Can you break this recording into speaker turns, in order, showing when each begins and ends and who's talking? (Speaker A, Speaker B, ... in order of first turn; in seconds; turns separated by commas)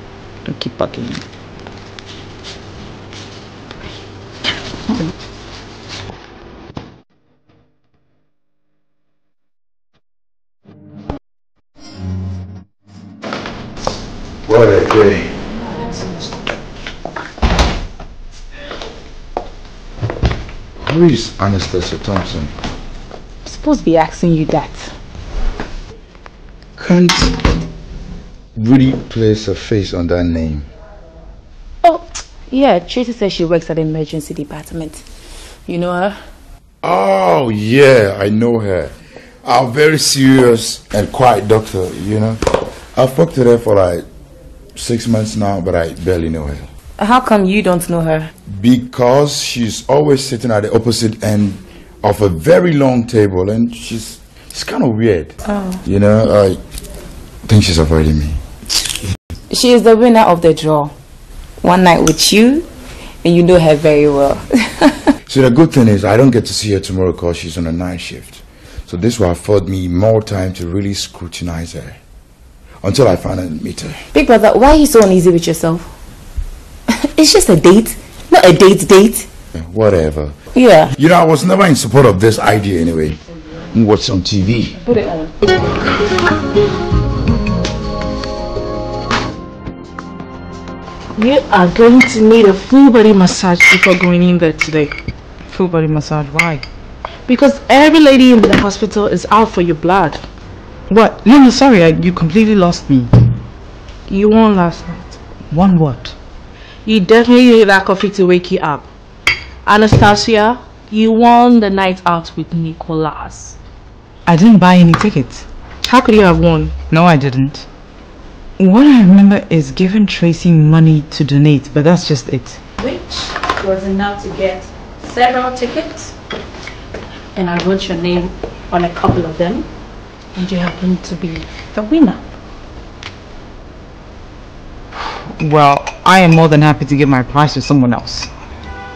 Speaker A: 0.5-1.2, Speaker B: 14.4-15.4, Speaker B: 20.8-22.5, Speaker A: 23.5-24.9, Speaker B: 26.8-27.4, Speaker B: 28.6-30.7, Speaker C: 31.8-35.0, Speaker C: 35.7-36.2, Speaker B: 36.8-38.9, Speaker B: 39.5-42.4, Speaker B: 42.9-44.0, Speaker B: 44.8-46.7, Speaker C: 47.0-48.3, Speaker B: 48.5-56.6, Speaker C: 55.5-55.8, Speaker B: 57.5-58.4, Speaker C: 59.5-60.9, Speaker C: 61.6-62.7, Speaker C: 63.2-64.9, Speaker B: 65.3-72.0, Speaker B: 72.8-74.0, Speaker C: 74.1-75.9, Speaker C: 77.1-79.3, Speaker B: 79.5-80.3, Speaker C: 80.6-80.9, Speaker B: 80.9-83.2, Speaker B: 83.7-84.8, Speaker D: 84.9-85.3, Speaker D: 91.2-94.9, Speaker A: 95.5-96.7, Speaker D: 97.3-100.2, Speaker A: 100.9-103.1, Speaker D: 104.1-105.2, Speaker A: 105.5-106.2, Speaker D: 106.9-108.9, Speaker D: 109.7-113.6, Speaker A: 114.3-115.5, Speaker D: 115.8-116.8, Speaker A: 116.9-117.7, Speaker A: 118.6-122.6, Speaker E: 122.8-126.2, Speaker E: 127.3-129.7, Speaker E: 130.3-132.2, Speaker A: 135.4-138.3